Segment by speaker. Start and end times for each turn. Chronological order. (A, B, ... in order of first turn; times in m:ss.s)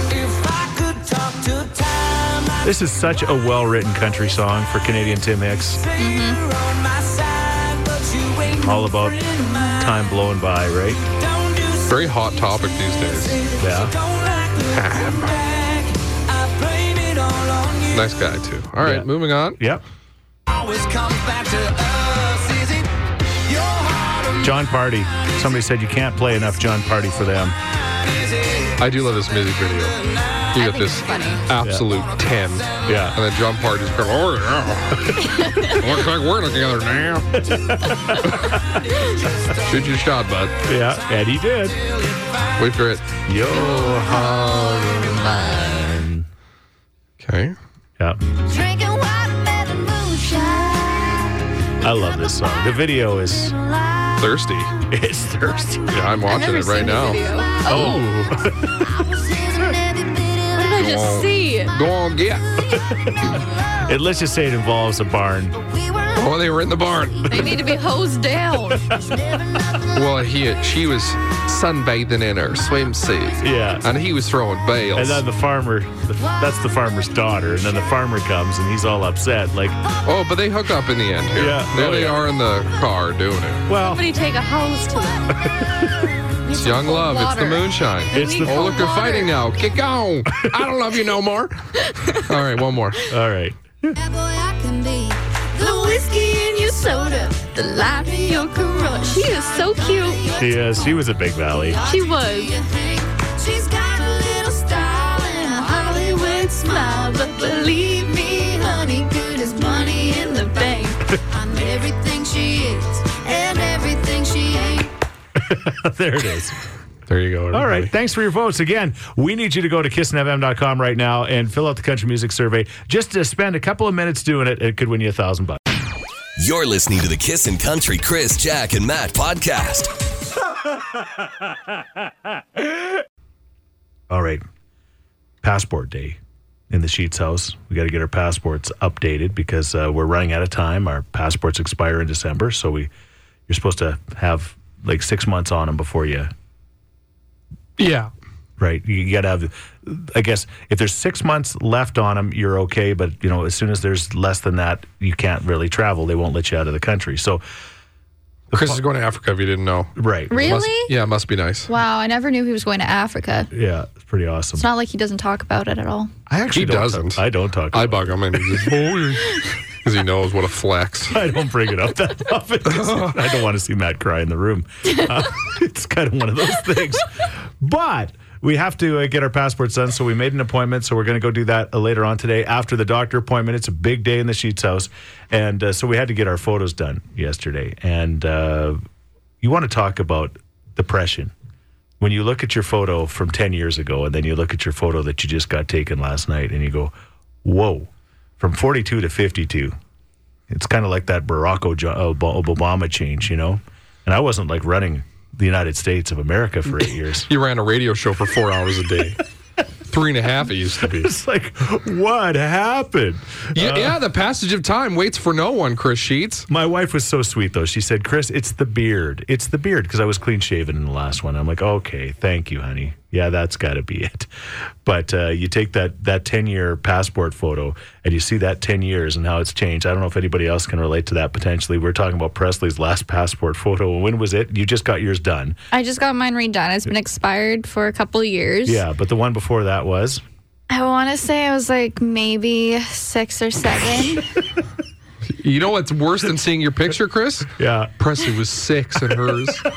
0:00.2-0:01.7 A
0:02.6-0:05.8 B
0:06.0-0:06.4 C
0:06.0-0:06.4 A
0:07.4-0:09.9 A
0:08.6-0:11.0 B
0:11.9-0:13.4 D
0:13.6-0:13.9 B
0:13.6-0:15.6 A
0:14.7-0:15.4 D
0:16.7-0:17.4 A
0:17.9-0:19.6 D
0:18.8-0:19.8 B
0:20.7-0:22.4 A
0:24.4-0:27.6 B
0:28.8-0:37.4 D
0:30.5-0:31.4 C
0:32.8-0:33.2 B
0:35.2-0:35.8 C
0:37.4-0:38.6 B
0:38.2-0:38.6 D
0:39.6-0:40.6 D
0:40.6-0:41.8 B
0:42.6-0:43.1 D
0:43.2-0:46.3 B
0:47.2-0:47.5 D
0:48.4-0:51.4 A
0:51.8-0:53.5 B
0:53.3-0:54.8 A
0:54.2-0:54.7 D
0:54.9-0:55.9 B
0:55.6-0:55.9 A
0:55.9-0:58.4 D
0:56.3-0:58.0 C
0:56.8-1:03.9 A
0:57.7-0:58.7 B
1:00.6-1:01.7 C
1:00.8-1:02.5 D
1:03.8-1:05.6 B
1:05.6-1:06.5 A
1:06.1-1:07.6 D
1:07.2-1:07.7 A
1:07.3-1:08.8 C
1:08.8-1:10.2 A
1:09.9-1:15.2 D
1:13.4-1:13.9 B
1:14.9-1:19.8 B
1:20.0-1:23.6 D
1:21.3-1:22.2 B
1:23.7-1:24.0 B
1:23.8-1:25.3 C
1:25.6-1:25.9 B
1:26.4-1:29.3 C
1:26.6-1:33.0 D
1:28.1-1:28.9 B
1:33.0-1:34.0 B
1:33.9-1:41.0 A
1:36.3-1:40.3 C
1:40.4-1:41.8 B
1:41.5-1:54.9 A
1:41.8-1:42.5 C
1:55.4-1:56.6 B
1:57.1-1:57.9 D
1:57.5-2:05.6 B
2:06.4-2:09.9 E
2:14.1-2:14.4 B
2:15.4-2:16.2 B
2:16.7-2:22.9 B
2:23.5-2:26.3 B
2:27.8-2:28.1 D
2:28.6-2:37.4 B
2:38.5-2:38.8 B
2:38.5-2:41.7 D
2:40.0-2:40.6 B
2:40.3-2:40.9 C
2:41.7-2:43.5 C
2:43.5-2:44.6 B
2:44.6-2:46.1 C
2:46.3-2:48.7 B
2:46.5-2:51.2 D
2:51.1-3:08.8 B
2:52.7-2:53.2 D
3:09.4-3:11.3 B
3:12.0-3:16.9 B
3:17.4-3:19.7 B
3:20.5-3:27.3 B
3:27.3-3:29.2 D
3:29.9-3:31.1 D
3:30.8-3:34.0 B
3:33.5-3:36.5 D
3:36.5-3:44.3 B
3:44.8-3:55.6 B
3:55.7-3:58.8 C
3:58.6-4:00.2 B
4:00.7-4:04.2 C
4:05.3-4:09.6 D
4:07.6-4:07.9 B